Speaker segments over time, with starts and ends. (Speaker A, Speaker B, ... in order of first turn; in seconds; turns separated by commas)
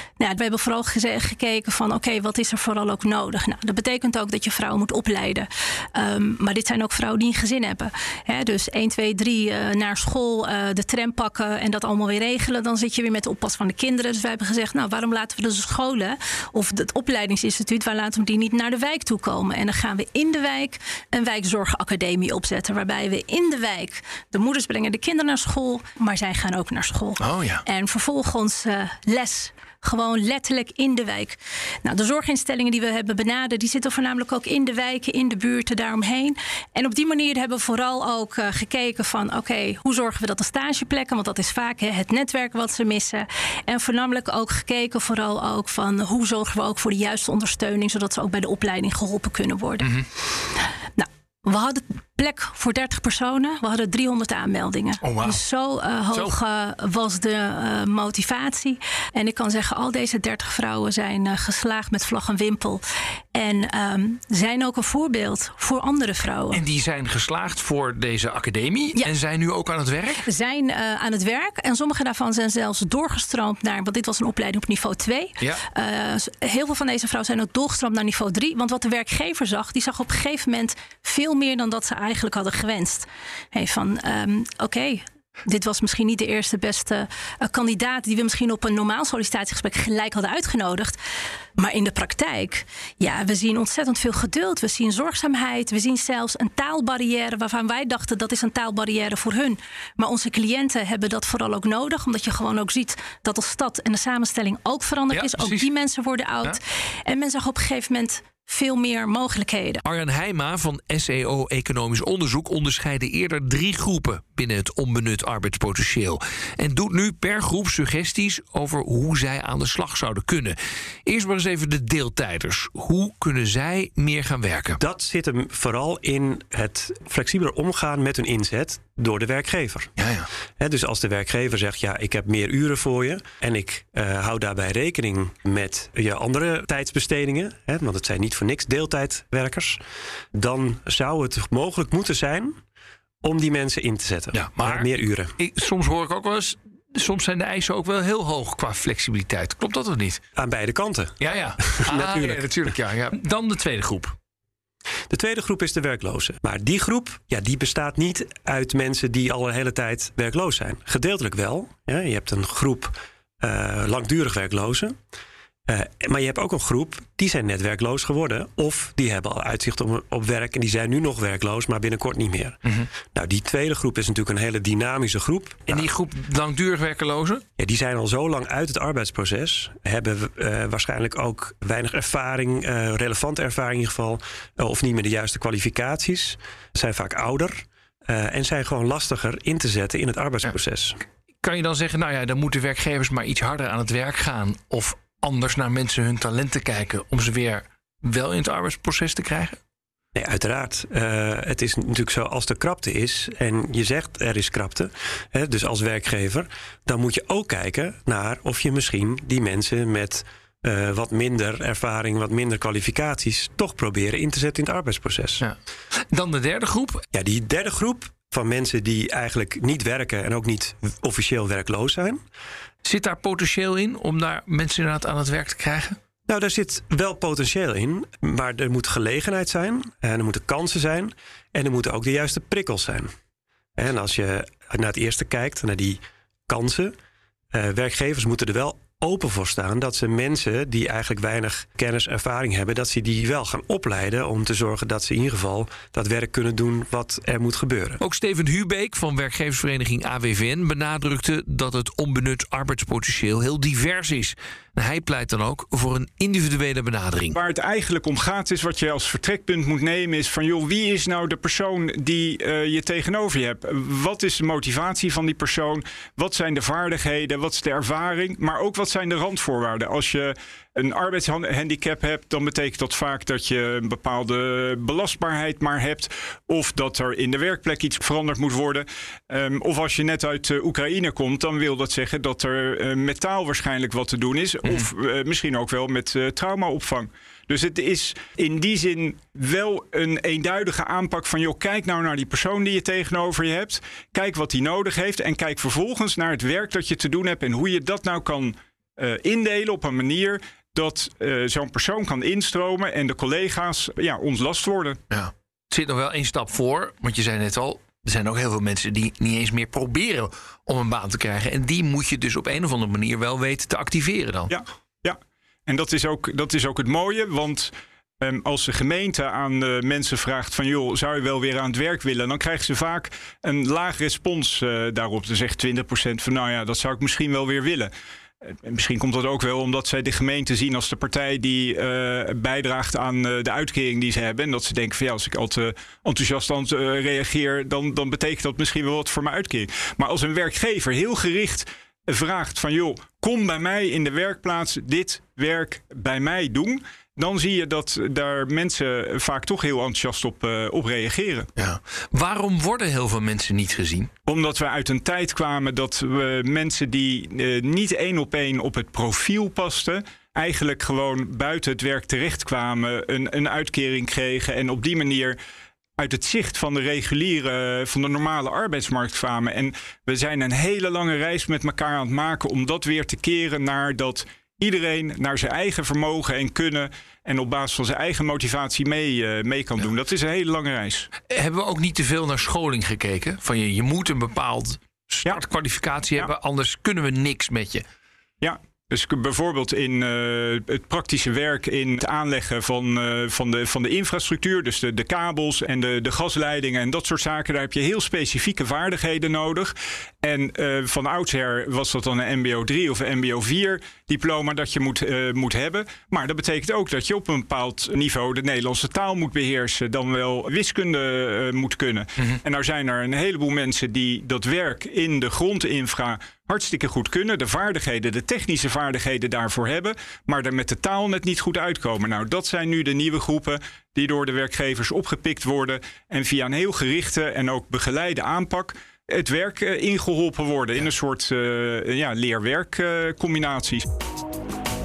Speaker A: 0.2-49.9, Speaker B: 27.2-27.6, Speaker A: 51.0-62.8, Speaker B: 55.0-55.4, Speaker A: 63.3-66.6, Speaker B: 66.5-70.2, Speaker A: 70.2-91.0, Speaker A: 91.6-109.8, Speaker B: 105.1-105.7, Speaker B: 109.8-124.8, Speaker C: 124.8-129.9, Speaker B: 130.0-130.3, Speaker C: 130.6-139.8, Speaker C: 140.3-142.6, Speaker C: 143.2-145.3, Speaker B: 144.3-150.2, Speaker C: 150.3-152.4, Speaker B: 151.2-154.2, Speaker C: 155.1-165.0, Speaker C: 165.7-172.6, Speaker C: 173.1-175.9, Speaker B: 175.7-177.4, Speaker C: 177.6-191.0, Speaker B: 191.4-199.6, Speaker C: 200.1-215.4, Speaker B: 216.1-217.0, Speaker C: 217.1-222.2, Speaker B: 222.8-226.0, Speaker C: 226.3-233.1, Speaker C: 233.8-236.9, Speaker C: 237.5-248.0, Speaker B: 248.0-257.4, Speaker D: 257.3-305.0, Speaker B: 305.1-314.5, Speaker D: 314.5-327.9, Speaker D: 328.5-351.5, Speaker B: 351.6-354.1, Speaker D: 354.3-365.4, Speaker D: 366.0-381.1, Speaker B: 381.3-387.8, Speaker D: 388.4-433.9